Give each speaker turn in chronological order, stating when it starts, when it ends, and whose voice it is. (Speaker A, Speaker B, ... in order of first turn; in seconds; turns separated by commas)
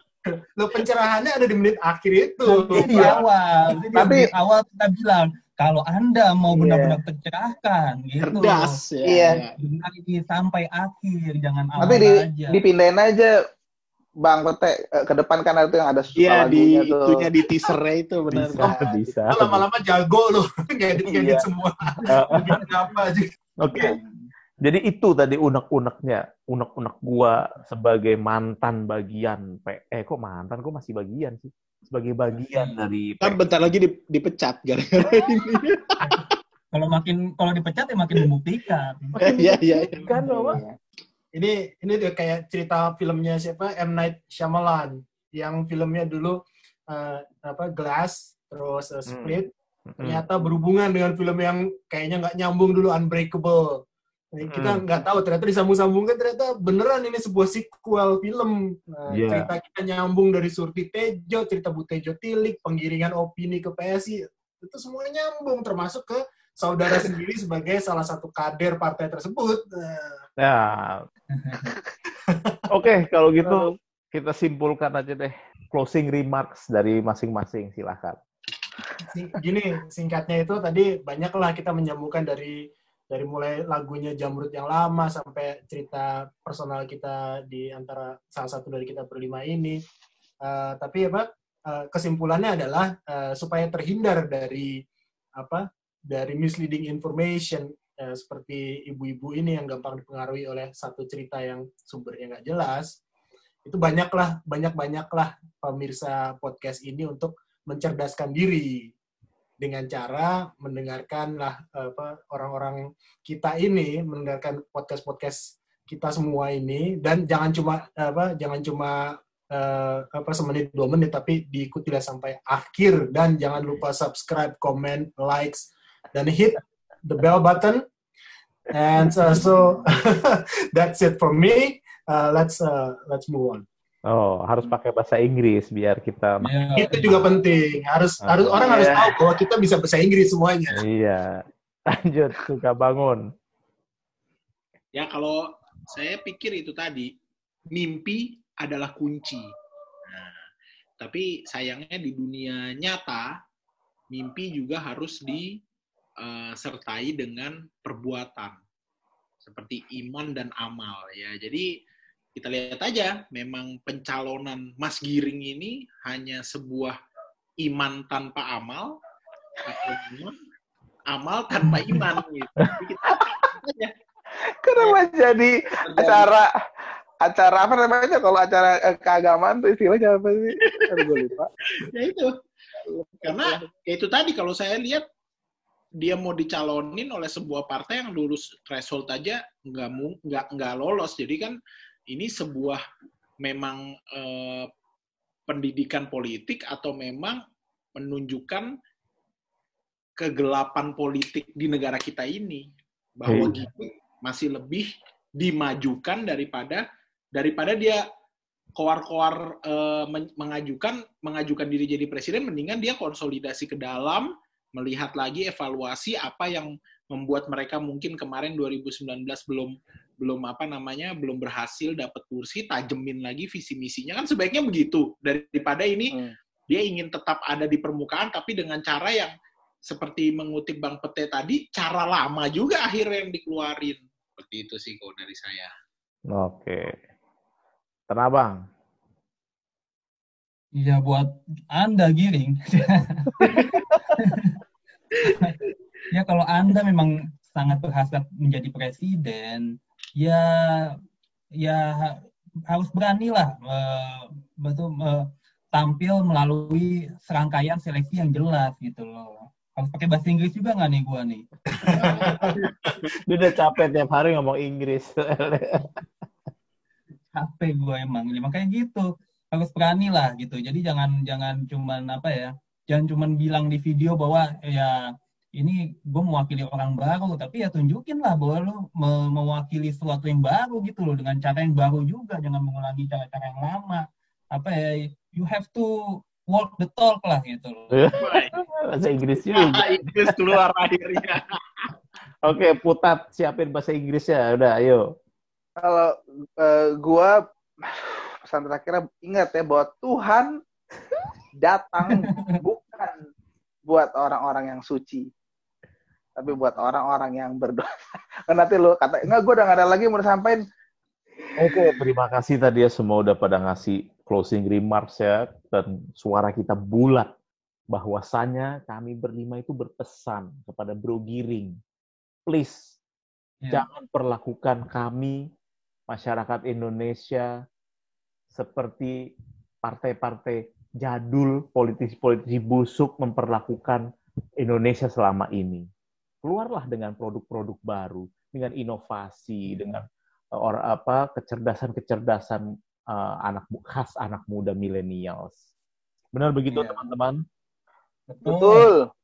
Speaker A: 0.2-3.2, Speaker B: 2.5-8.7, Speaker C: 3.9-4.3, Speaker C: 6.5-7.0, Speaker D: 8.2-9.5, Speaker C: 9.0-9.4, Speaker B: 9.6-12.6, Speaker C: 11.8-13.3, Speaker C: 14.2-17.2, Speaker D: 16.1-18.9, Speaker E: 18.3-19.6, Speaker A: 18.6-23.3, Speaker E: 21.1-21.4, Speaker E: 22.0-22.6, Speaker E: 23.6-24.0, Speaker B: 23.7-24.3, Speaker E: 24.6-33.4, Speaker B: 32.5-32.8, Speaker D: 33.2-36.0, Speaker B: 36.0-39.1, Speaker D: 39.2-40.6, Speaker E: 39.2-40.6, Speaker C: 40.2-40.7, Speaker A: 41.3-46.4, Speaker A: 46.9-53.8, Speaker E: 49.1-49.4, Speaker E: 49.9-50.2, Speaker A: 54.3-70.2, Speaker E: 54.5-54.8, Speaker E: 59.1-59.5, Speaker E: 70.4-71.0, Speaker B: 71.3-71.8, Speaker A: 72.3-72.6, Speaker E: 72.7-78.2, Speaker A: 73.4-73.7, Speaker A: 79.0-82.6, Speaker A: 83.1-89.8, Speaker A: 90.4-94.8, Speaker A: 95.4-103.0, Speaker A: 103.6-108.9, Speaker A: 109.6-127.8, Speaker A: 128.7-133.6, Speaker E: 134.1-136.5, Speaker B: 136.4-137.3, Speaker A: 136.8-140.8, Speaker E: 138.2-139.2, Speaker E: 140.7-143.2, Speaker D: 144.9-147.1, Speaker D: 147.7-149.5, Speaker D: 150.1-150.4, Speaker D: 151.0-153.2, Speaker D: 154.1-155.5, Speaker D: 156.2-158.6, Speaker D: 159.4-161.7, Speaker D: 162.3-166.9, Speaker D: 167.6-169.0, Speaker D: 169.6-170.3, Speaker D: 171.1-173.9, Speaker C: 174.6-176.5, Speaker D: 175.8-176.4, Speaker C: 177.2-181.5, Speaker D: 180.6-181.1, Speaker D: 181.7-182.3, Speaker C: 182.8-183.7, Speaker D: 183.2-185.0, Speaker D: 186.0-191.6, Speaker D: 192.1-192.8, Speaker D: 193.4-194.7, Speaker D: 195.5-197.4, Speaker D: 197.9-198.7, Speaker D: 200.2-208.0, Speaker E: 203.3-203.6, Speaker D: 208.7-226.1, Speaker D: 226.7-229.3, Speaker D: 229.8-235.7, Speaker E: 236.3-237.0, Speaker E: 238.1-238.6, Speaker B: 240.7-244.6, Speaker B: 245.2-245.6, Speaker B: 246.1-251.0, Speaker B: 251.6-261.4, Speaker A: 261.7-263.0, Speaker E: 262.0-262.3, Speaker E: 263.0-266.0, Speaker B: 267.3-275.0, Speaker B: 275.6-288.0, Speaker E: 287.9-290.6, Speaker D: 288.1-288.6, Speaker D: 289.4-291.9, Speaker E: 292.4-295.0, Speaker C: 295.8-297.3, Speaker C: 297.9-300.5, Speaker C: 301.6-303.2, Speaker B: 302.2-302.5, Speaker C: 303.9-305.3, Speaker C: 306.4-307.9, Speaker C: 308.5-310.6, Speaker E: 311.6-317.3, Speaker E: 317.9-321.8, Speaker E: 322.5-323.0, Speaker E: 323.7-325.4, Speaker E: 326.1-327.5, Speaker E: 328.5-329.1, Speaker E: 329.8-334.0, Speaker E: 334.6-335.9, Speaker E: 336.4-340.0, Speaker E: 340.6-345.6, Speaker E: 346.3-347.4, Speaker B: 346.7-347.0, Speaker B: 348.3-348.9, Speaker C: 348.4-349.1